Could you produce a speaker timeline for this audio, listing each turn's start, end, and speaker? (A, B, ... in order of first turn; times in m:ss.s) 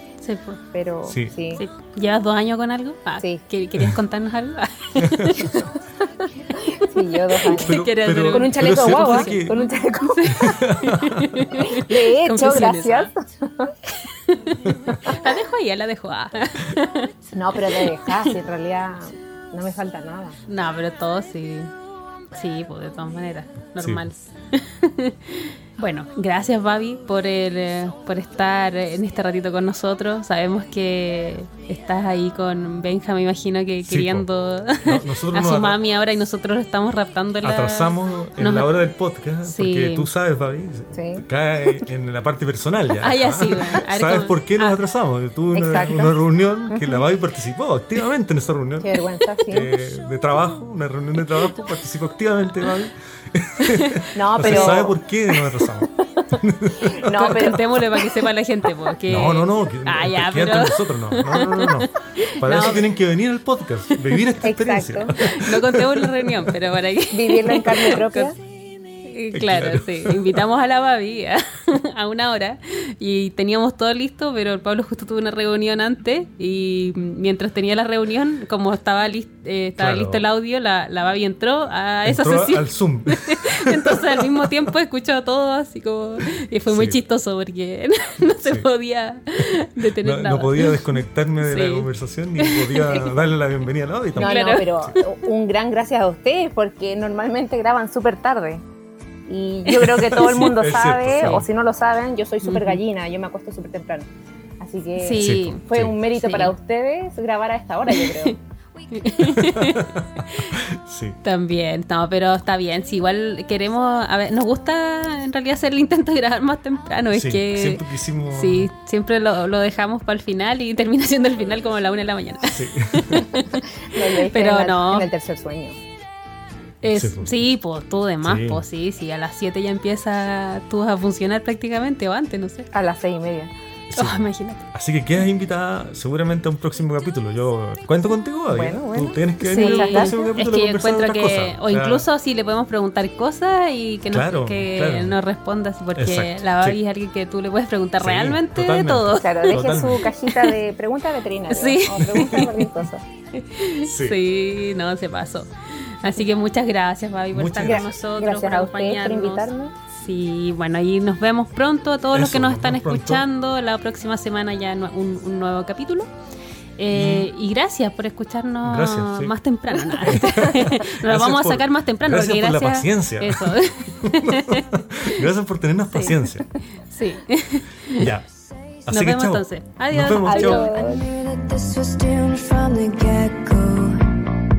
0:00.2-0:00.6 A
0:00.7-0:01.6 B
0:01.0-0:01.3 C
0:01.5-0:05.7 A
0:05.0-0:05.6 C
0:06.6-0:10.6 B
0:07.4-0:13.1 A
0:07.5-0:09.6 C
0:10.3-0:11.6 C
0:11.6-0:13.7 B
0:14.0-0:18.4 A
0:14.6-0:15.0 C
0:17.3-0:20.4 B
0:20.5-0:21.7 A
0:22.3-0:38.7 A
0:23.8-0:24.0 C
0:33.8-0:34.3 C
0:34.8-0:35.8 C
0:37.4-0:57.5 C
0:39.4-0:40.1 A
0:40.9-0:41.2 B
0:43.0-0:44.8 A
0:45.5-0:46.1 B
0:46.7-0:47.0 B
0:48.8-0:49.7 B
0:53.7-0:54.8 A
0:54.1-0:55.0 B
0:56.8-0:58.3 B
0:57.2-1:02.9 A
0:59.1-1:06.5 C
1:03.9-1:04.2 A
1:04.4-1:05.2 B
1:05.2-1:08.3 A
1:07.1-1:08.4 B
1:09.0-1:33.2 A
1:09.3-1:10.4 C
1:19.8-1:20.2 C
1:22.0-1:24.5 C
1:26.7-1:27.0 C
1:28.4-1:28.7 C
1:29.4-1:34.9 C
1:34.2-1:34.8 A
1:34.2-1:38.6 B
1:39.3-1:48.4 B
1:39.7-1:40.6 A
1:40.2-1:41.5 C
1:41.2-1:41.4 A
1:42.4-1:42.8 A
1:45.0-1:46.5 A
1:45.2-1:45.9 C
1:47.9-1:48.4 A
1:48.9-1:50.4 A
1:49.2-1:51.2 C
1:51.2-2:05.1 A
1:57.1-1:58.7 C
2:02.5-2:03.4 C
2:03.8-2:05.8 B
2:06.8-2:12.7 A
2:06.9-2:07.4 C
2:08.2-2:08.6 C
2:12.7-2:13.5 B
2:13.9-2:22.0 C
2:14.0-2:14.7 A
2:18.5-2:20.2 B
2:19.5-2:29.7 A
2:24.1-2:25.2 C
2:26.0-2:26.8 C
2:28.0-2:30.1 C
2:29.1-2:33.0 B
2:30.2-2:30.5 A
2:31.5-2:32.7 A
2:32.0-2:32.4 C
2:33.3-2:46.1 A
2:33.8-2:34.2 C
2:37.3-2:37.9 C
2:37.6-2:39.7 B
2:42.1-2:43.2 C
2:46.8-2:55.2 A
2:46.9-2:47.3 C
2:48.6-2:49.3 C
2:50.0-2:56.5 C
2:55.9-2:56.3 A
2:56.9-2:58.1 A
2:57.9-2:58.3 C
2:58.8-3:00.8 A
2:58.8-3:00.6 C
3:00.2-3:01.0 B
3:00.6-3:04.2 D